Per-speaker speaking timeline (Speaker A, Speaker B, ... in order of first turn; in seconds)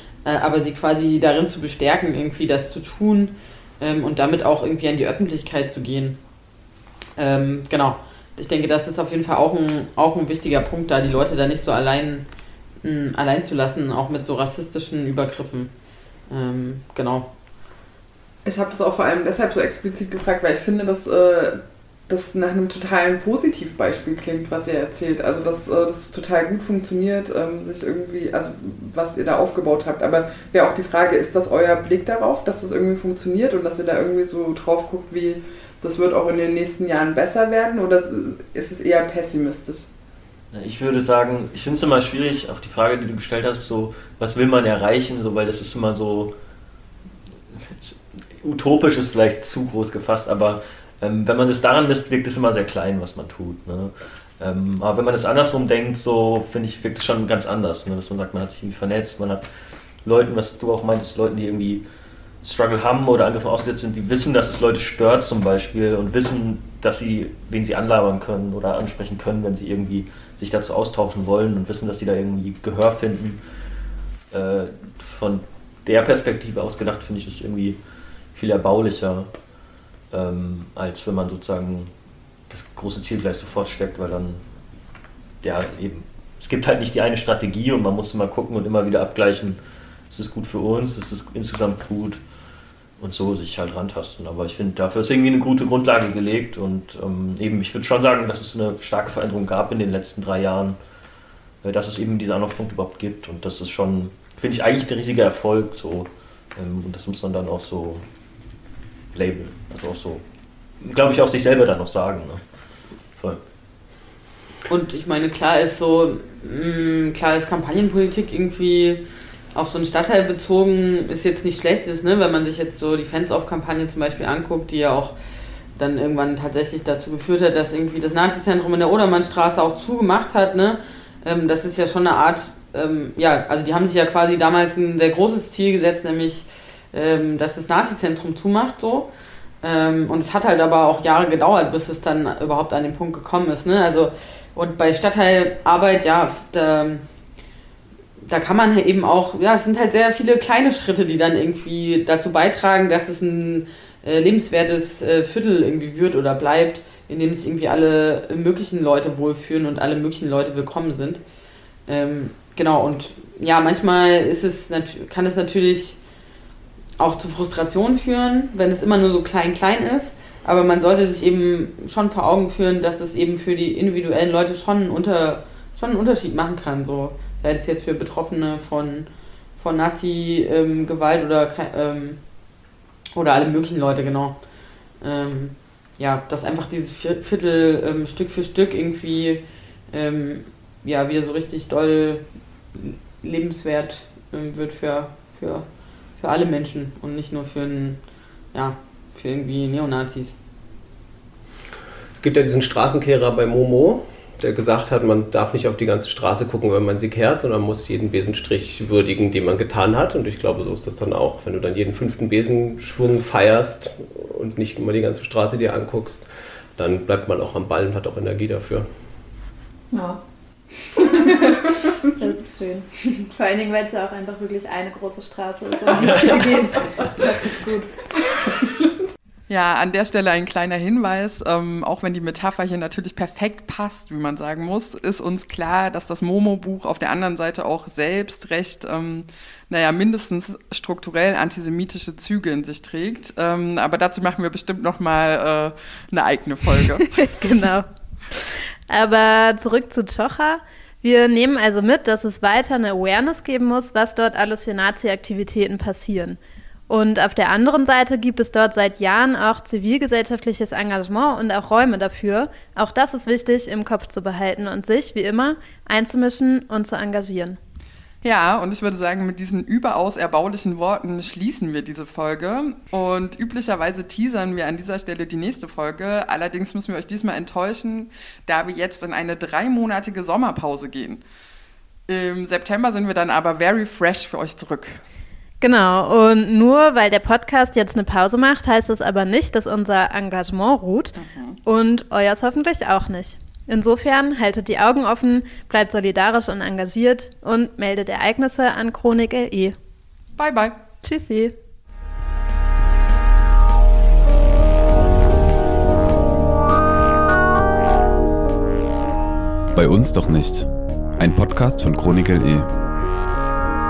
Speaker A: 0.2-6.2, 7.2-12.2, 12.8-15.7, 16.3-17.3, 114.7-119.0, 119.5-125.1, 125.8-139.1, 139.6-147.0, 148.2-161.2, 161.9-166.0, 167.0-182.2, 183.2-184.4, 185.0-189.4, 189.9-192.2, 192.7-195.7, 196.2-198.0, 198.5-200.3, 226.0-226.9
Speaker B: 18.4-39.9, 229.5-247.2, 268.2-281.2, 282.1-285.0, 291.2-291.6, 300.4-300.8
Speaker C: 40.5-46.3, 47.5-59.5, 60.0-61.8, 62.4-73.4, 74.3-77.8, 78.3-79.3, 80.1-81.9, 82.5-84.4, 85.4-89.6, 90.1-92.2, 93.0-100.8, 101.6-108.0, 109.1-110.2, 110.8-112.4
Speaker D: 202.2-218.9
Speaker E: 219.9-220.2, 221.0-227.9, 247.1-256.4, 256.9-267.6, 285.6-299.8, 301.0-301.6
Speaker F: 309.7-312.7